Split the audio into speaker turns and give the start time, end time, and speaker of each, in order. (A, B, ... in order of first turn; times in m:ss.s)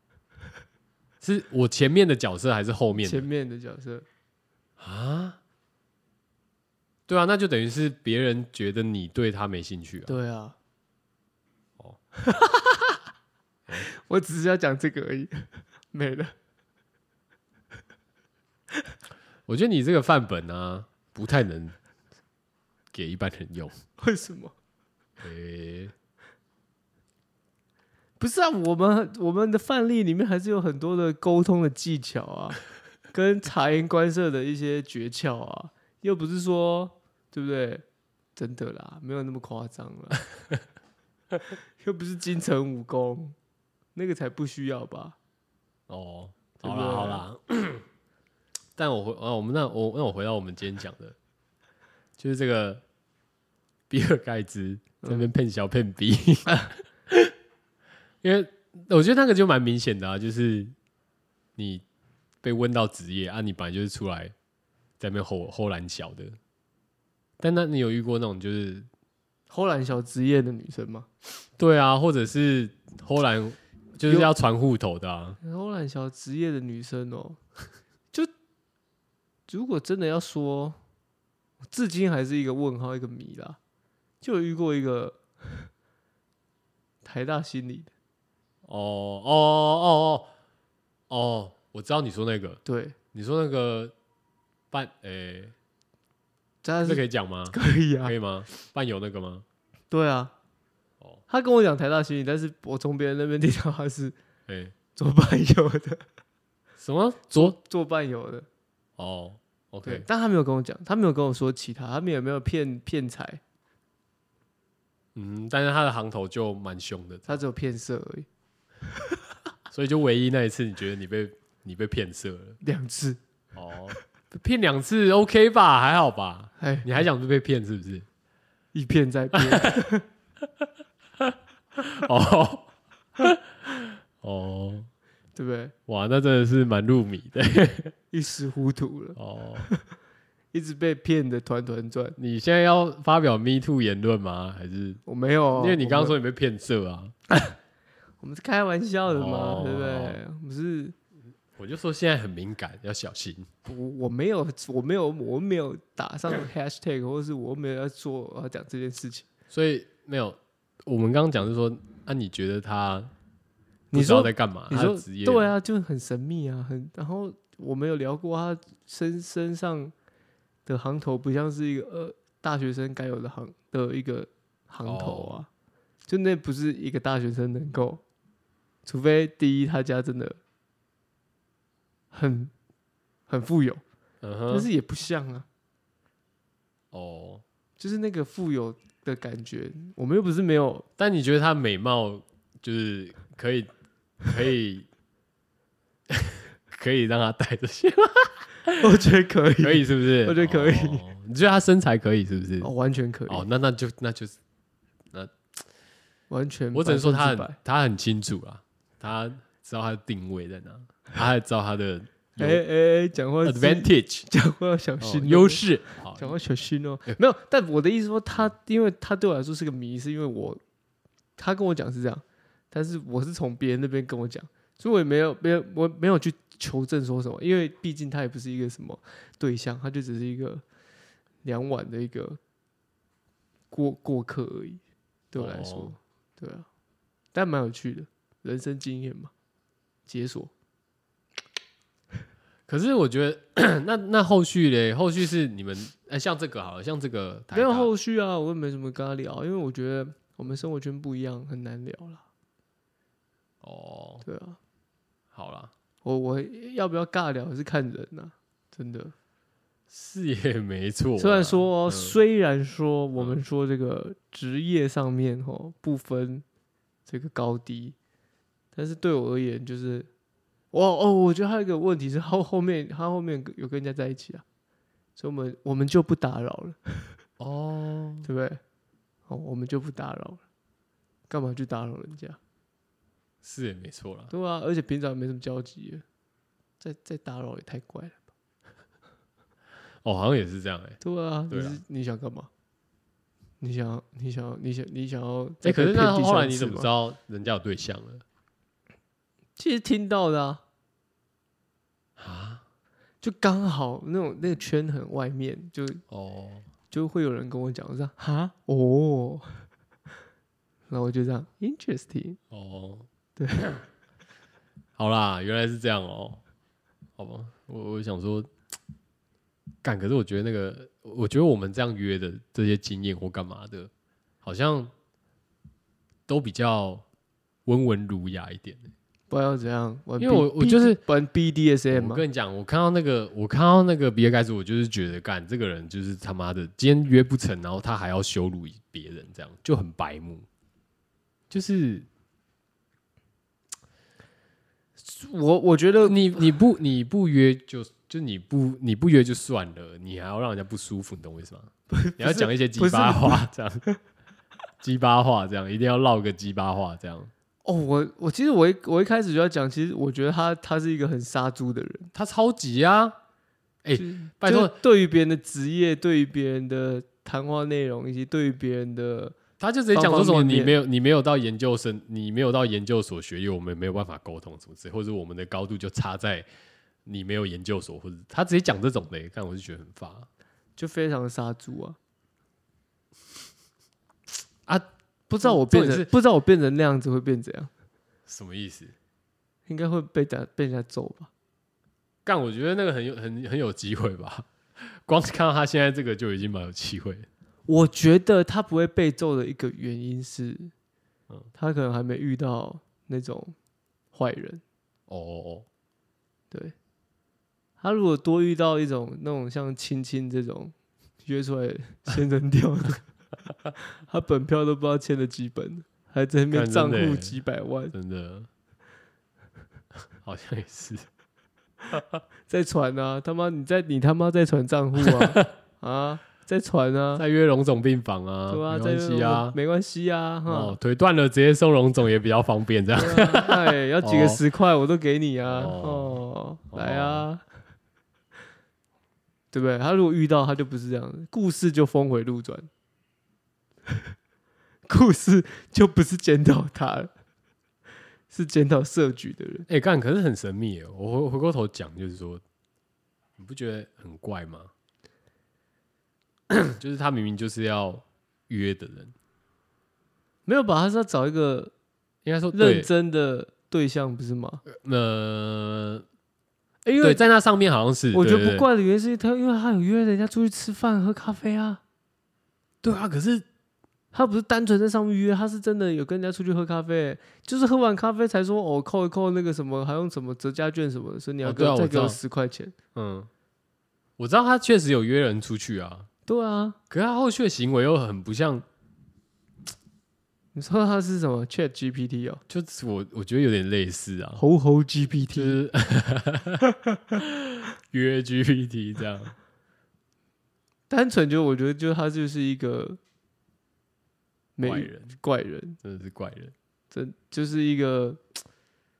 0:01.2-0:03.3 A
0:03.0-0:04.0 B
0:04.8-0:05.4 A
0:07.1-0:10.1 A
0:10.0-0:10.6 B
0:12.2-0:13.0 B
0:13.8-0:16.3 B
0:19.5-0:21.8 A
0:22.9-0:23.8 A
0:24.0-0:24.5 B
0:25.2-0:25.9 A
0:28.2-0:37.8 B
0:38.4-0:40.2 B
0:41.8-0:43.4 B
0:43.9-0:45.2 B
0:45.9-0:47.8 A
0:46.6-0:47.2 B
0:48.8-0:51.2 A
0:52.2-0:52.8 A
0:53.9-0:57.3 A
0:55.0-0:55.3 B
0:58.2-1:00.7 A
1:01.6-1:01.8 A
1:02.4-1:04.3 A
1:05.0-1:06.4 A
1:07.4-1:08.9 A
1:09.5-1:11.1 B
1:11.6-1:15.4 A
1:14.0-1:14.3 B
1:15.4-1:17.4 B
1:19.5-1:20.8 B
1:21.7-1:23.6 B
1:24.2-1:25.7 B
1:27.0-1:27.9 B
1:28.6-1:30.3 A
1:31.1-1:32.6 A
1:32.6-1:33.0 B
1:33.1-1:33.9 A
1:34.7-1:35.5 A
1:36.6-1:38.1 B
1:36.8-1:39.4 A
1:39.9-1:40.3 B
1:41.3-1:44.1 B
1:44.5-1:44.7 A
1:44.9-1:46.0 B
1:46.8-1:47.6 A
1:47.3-1:48.5 B
1:49.0-1:50.0 A
1:49.8-1:53.4 B
1:55.1-1:57.4 A
1:57.3-1:58.3 B
1:59.7-2:02.6 A
2:02.6-2:03.2 B
2:03.5-2:08.0 A
2:06.6-2:06.9 B
2:08.7-2:10.0 B
2:09.3-2:09.8 A
2:11.2-2:14.9 A
2:15.3-2:15.7 B
2:15.9-2:17.9 A
2:18.1-2:19.8 B
2:19.2-2:19.7 A
2:20.5-2:22.2 B
2:22.2-2:25.0 A
2:25.0-2:26.1 B
2:25.5-2:27.1 A
2:28.2-2:30.9 B
2:29.1-2:30.2 A
2:31.6-2:33.5 A
2:33.6-2:39.2 B
2:39.5-2:43.1 A
2:43.9-2:49.9 B
2:43.9-2:45.5 A
2:50.6-2:55.5 B
2:54.8-2:55.4 A
2:56.1-2:58.0 B
2:58.8-3:00.4 B
3:02.1-3:02.5 B
3:03.3-3:03.8 B
3:04.2-3:04.7 A
3:04.5-3:05.4 B
3:06.9-3:07.4 A
3:07.8-3:10.9 B
3:11.0-3:13.7 A
3:14.2-3:14.9 A
3:16.1-3:18.8 A
3:18.8-3:21.0 B
3:19.6-3:22.7 A
3:22.6-3:23.4 B
3:23.3-3:24.4 A
3:26.3-3:27.6 B
3:26.7-3:32.6 A
3:32.4-3:40.6 B
3:33.4-3:34.3 A
3:35.0-3:36.4 A
3:41.4-3:50.6 B
3:51.4-3:52.4 B
3:53.7-3:56.6 B
3:55.3-3:55.9 A
3:57.3-3:59.3 B
4:00.1-4:00.5 B
4:02.7-4:07.9 A
4:07.5-4:12.2 B
4:13.6-4:14.2 A
4:14.2-4:14.6 B
4:15.3-4:15.7 A
4:16.0-4:19.1 B
4:19.9-4:22.2 A
4:21.2-4:26.4 B
4:27.0-4:27.9 B
4:28.7-4:30.1 B
4:30.7-4:34.4 B
4:35.2-4:37.2 B
4:37.4-4:38.3 A
4:38.2-4:38.6 B
4:39.3-4:40.4 B
4:41.3-4:42.4 B
4:43.4-4:44.3 A
4:44.3-4:46.0 B
4:46.8-4:48.2 B
4:50.0-4:51.8 A
4:51.0-4:52.5 B
4:53.6-4:56.9 B
4:55.6-4:58.2 A
4:59.6-5:00.6 B
5:02.2-5:02.6 A
5:03.2-5:06.0 B
5:06.1-5:06.7 A
5:06.9-5:09.6 B
5:10.9-5:12.4 B
5:12.5-5:13.1 A
5:13.4-5:13.8 B
5:15.0-5:16.4 A
5:17.2-5:18.5 A
5:19.8-5:23.9 A
5:24.4-5:24.9 A
5:26.3-5:27.0 A
5:27.6-5:28.9 A
5:29.3-5:32.2 B
5:30.2-5:31.0 A
5:31.9-5:40.4 A
5:41.5-5:42.0 A
5:45.0-5:46.5 B
5:46.0-5:53.8 A
5:51.9-5:54.0 B
5:54.8-5:57.3 A
5:57.6-6:02.1 B
6:02.1-6:03.2 A
6:03.8-6:04.8 A
6:04.0-6:09.4 B
6:09.6-6:16.5 A
6:09.9-6:10.8 B
6:17.0-6:20.3 A
6:20.8-6:22.0 B
6:25.3-6:27.7 B
6:25.4-6:26.1 A
6:28.3-6:28.9 A
6:29.7-6:31.3 B
6:32.2-6:37.3 A
6:37.7-6:40.7 B
6:41.6-6:43.5 B
6:44.1-6:44.6 B
6:45.1-6:45.6 A
6:47.8-6:53.0 B
6:54.1-6:57.9 B
6:56.5-6:57.4 A
6:57.9-6:58.5 A
7:00.2-7:01.1 A
7:02.5-7:07.2 B
7:05.0-7:05.4 A
7:07.2-7:09.6 A
7:08.5-7:10.8 B
7:10.5-7:14.4 A
7:12.9-7:17.4 B
7:15.4-7:16.2 A
7:16.7-7:17.3 A
7:19.5-7:22.7 B
7:24.9-7:27.1 B
7:28.3-7:29.7 B
7:29.7-7:32.4 A
7:33.4-7:34.7 A
7:36.5-7:39.1 A
7:40.4-7:41.7 B
7:42.2-7:42.9 A
7:42.5-7:44.6 B
7:44.6-7:46.0 A
7:46.8-7:47.2 B
7:47.0-7:48.7 A
7:48.1-7:51.8 B
7:52.8-7:53.4 A
7:54.1-8:02.7 B
8:01.4-8:02.2 A
8:02.9-8:03.3 A
8:04.2-8:06.1 A
8:06.3-8:06.8 B
8:06.9-8:08.7 A
8:10.5-8:12.4 B
8:12.5-8:14.4 A
8:14.4-8:15.6 B
8:15.3-8:16.6 A
8:17.2-8:19.3 A
8:20.9-8:23.0 B
8:24.6-8:25.8 B
8:24.6-8:25.2 A
8:25.8-8:26.5 A
8:26.9-8:28.2 B